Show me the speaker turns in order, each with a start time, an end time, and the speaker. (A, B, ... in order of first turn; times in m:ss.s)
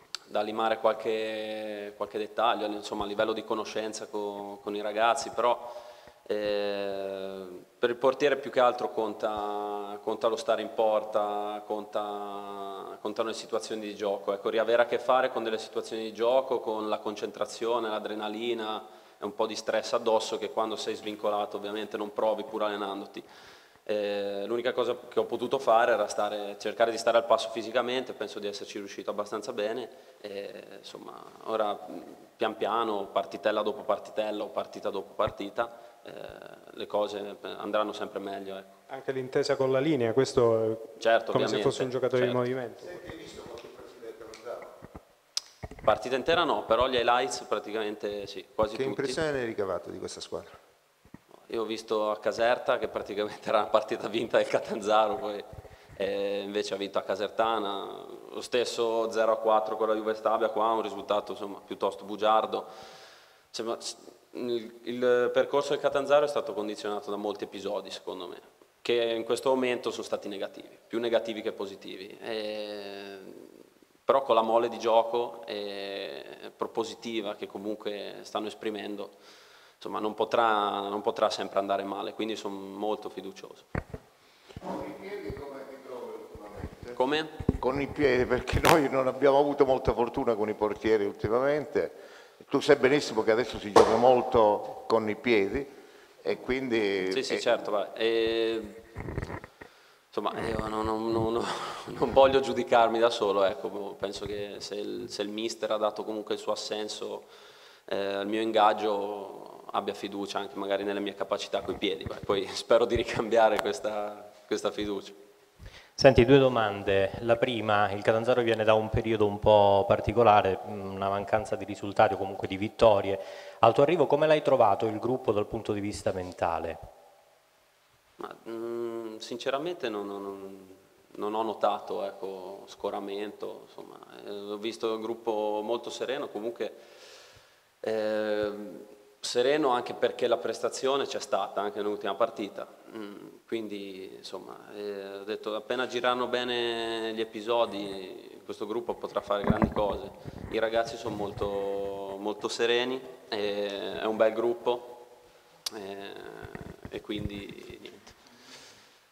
0:00.3-0:23.3 A
0:23.9-0:38.7 A
0:38.9-0:43.0 B
0:41.0-0:42.4 A
0:42.8-0:44.7 C
0:45.8-0:49.2 A
0:48.7-0:50.5 C
0:51.5-1:02.7 A
1:03.5-1:13.5 A
1:14.1-1:19.2 A
1:19.8-1:23.7 A
1:24.6-1:27.0 D
1:27.0-1:27.3 A
1:27.6-1:35.7 D
1:36.2-1:37.4 D
1:37.1-1:38.8 A
1:40.1-1:47.3 A
1:47.9-1:55.2 A
1:56.0-2:06.8 E
2:08.2-2:16.8 A
2:17.8-2:35.0 A
2:35.8-2:38.2 A